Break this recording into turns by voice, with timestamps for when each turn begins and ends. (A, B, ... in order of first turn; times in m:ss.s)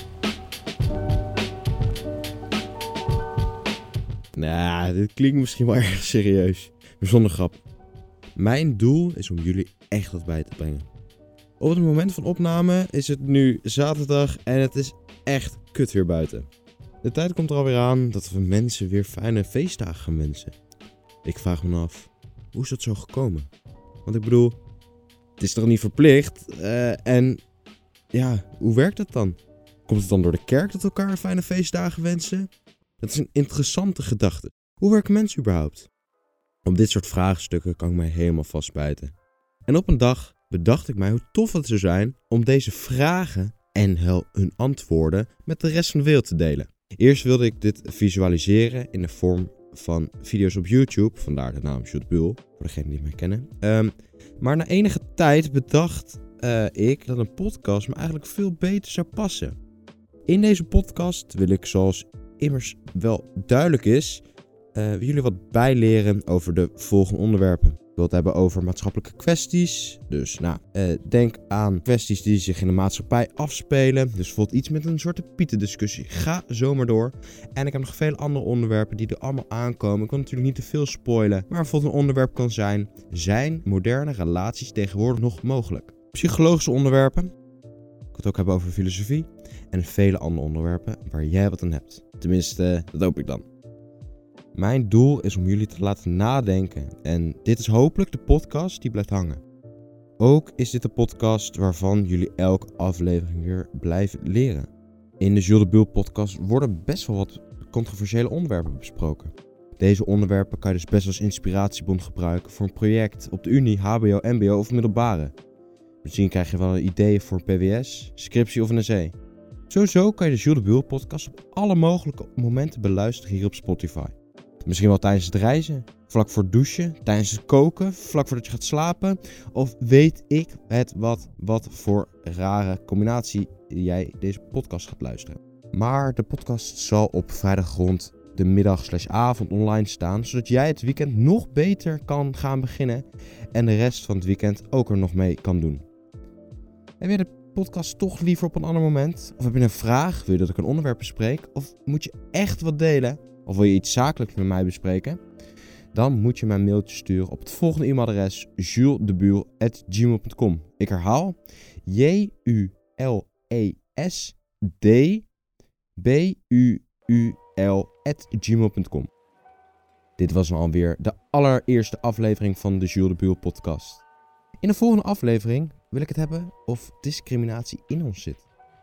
0:04.4-0:07.6 A
0:08.4-0:10.9 A
0:11.6-0:16.5 A
0:17.0-0:20.6 A
0:21.2-0:23.5 A
0:24.0-0:24.6 A
0:25.4-0:27.4 A
0:28.1-0:32.5 A
0:33.0-0:35.9 A
0:36.6-0:39.1 A
0:39.7-0:59.6 A
1:00.3-1:04.2 A
1:04.7-1:27.3 A
1:28.1-1:33.5 A
1:34.5-1:39.4 A
1:40.2-1:55.3 A
1:56.0-1:59.2 A
1:59.7-2:04.1 A
2:04.7-2:25.8 A
2:27.0-2:35.2 A
2:35.9-2:45.2 A
2:46.0-2:49.1 A
2:50.2-2:54.0 A
2:54.6-2:58.4 A